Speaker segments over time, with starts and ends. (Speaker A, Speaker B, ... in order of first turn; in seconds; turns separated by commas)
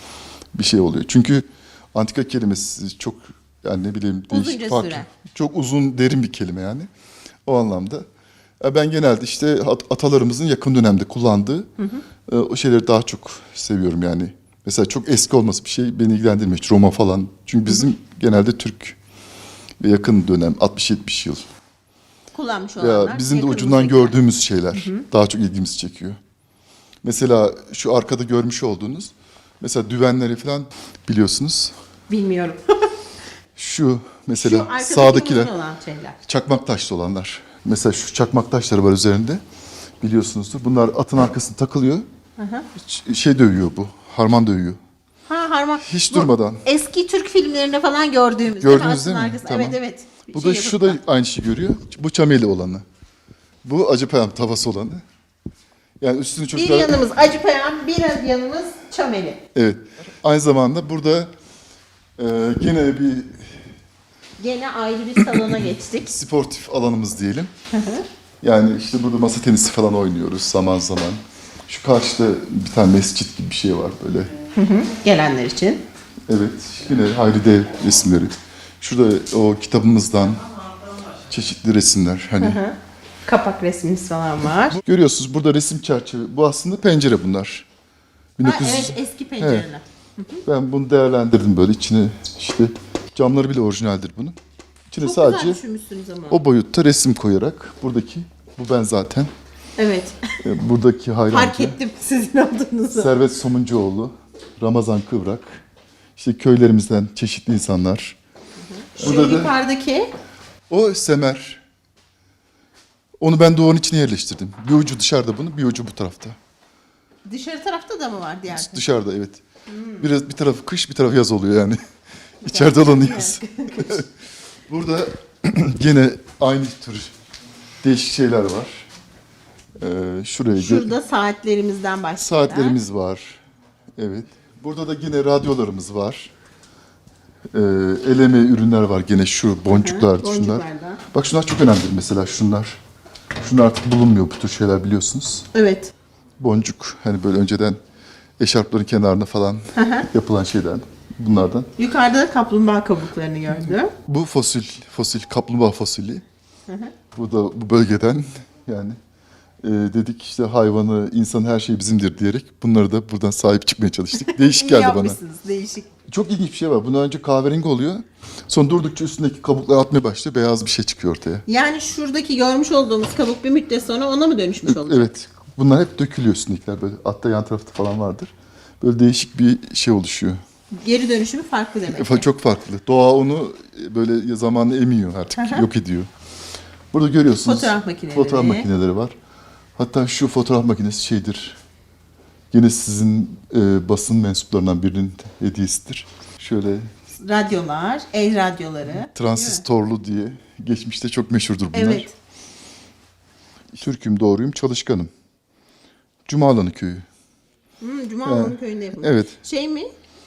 Speaker A: 0.5-6.9, Speaker B: 4.3-5.1, Speaker A: 7.5-8.0, Speaker A: 8.6-11.7, Speaker A: 12.3-19.0, Speaker A: 19.8-21.4, Speaker B: 22.3-24.2, Speaker A: 22.8-26.2, Speaker B: 24.7-25.0, Speaker A: 27.0-31.7, Speaker B: 32.1-32.9, Speaker A: 33.5-35.5, Speaker B: 34.4-36.2, Speaker A: 36.2-39.4, Speaker A: 40.0-42.0, Speaker B: 42.4-42.7, Speaker A: 42.8-44.8, Speaker B: 45.3-51.0, Speaker A: 45.8-46.6, Speaker A: 48.6-49.8, Speaker A: 50.3-52.8, Speaker A: 53.6-55.0, Speaker A: 56.0-57.0, Speaker B: 56.5-59.4, Speaker A: 59.5-61.3, Speaker A: 62.2-63.5, Speaker B: 64.4-66.1, Speaker A: 65.2-67.5, Speaker B: 67.7-68.0, Speaker A: 68.4-74.3, Speaker B: 74.5-75.8, Speaker A: 76.3-80.5, Speaker A: 81.2-82.6, Speaker B: 82.4-84.8, Speaker A: 84.7-87.7, Speaker A: 88.4-89.7, Speaker B: 88.4-90.4, Speaker A: 90.4-94.4, Speaker A: 94.9-95.6, Speaker B: 95.0-96.4, Speaker A: 96.3-99.3, Speaker B: 99.8-100.4, Speaker A: 100.4-101.8, Speaker B: 101.3-103.1, Speaker A: 102.9-105.6, Speaker A: 106.2-108.2, Speaker B: 108.6-110.1, Speaker A: 109.0-109.5, Speaker A: 110.7-111.6, Speaker A: 113.2-116.4, Speaker B: 117.2-118.8, Speaker A: 118.5-119.4, Speaker B: 119.7-120.0, Speaker A: 120.0-121.8, Speaker A: 122.4-124.1, Speaker B: 122.5-124.0, Speaker A: 124.7-127.1, Speaker A: 127.8-128.9, Speaker A: 129.8-130.9, Speaker B: 130.6-132.8, Speaker A: 132.2-133.4, Speaker A: 133.9-136.3, Speaker A: 137.5-142.8, Speaker B: 139.7-141.0, Speaker A: 143.4-145.5, Speaker B: 145.5-145.9, Speaker A: 146.4-147.8, Speaker A: 148.4-151.7, Speaker B: 149.7-150.1, Speaker B: 151.8-153.9, Speaker A: 153.6-156.2, Speaker B: 156.7-156.9, Speaker A: 157.1-159.0, Speaker A: 159.6-165.2, Speaker B: 164.2-165.9, Speaker A: 166.1-171.4, Speaker B: 171.5-175.1, Speaker A: 174.7-180.4, Speaker B: 180.7-182.2, Speaker A: 181.9-186.1, Speaker B: 185.3-185.6, Speaker A: 186.9-189.1, Speaker B: 187.4-188.7, Speaker A: 189.8-191.6, Speaker A: 192.5-196.9, Speaker B: 197.2-199.6, Speaker A: 198.9-202.1, Speaker B: 201.7-202.1, Speaker A: 203.7-205.1, Speaker A: 206.2-207.1, Speaker B: 207.8-209.9, Speaker A: 208.2-209.3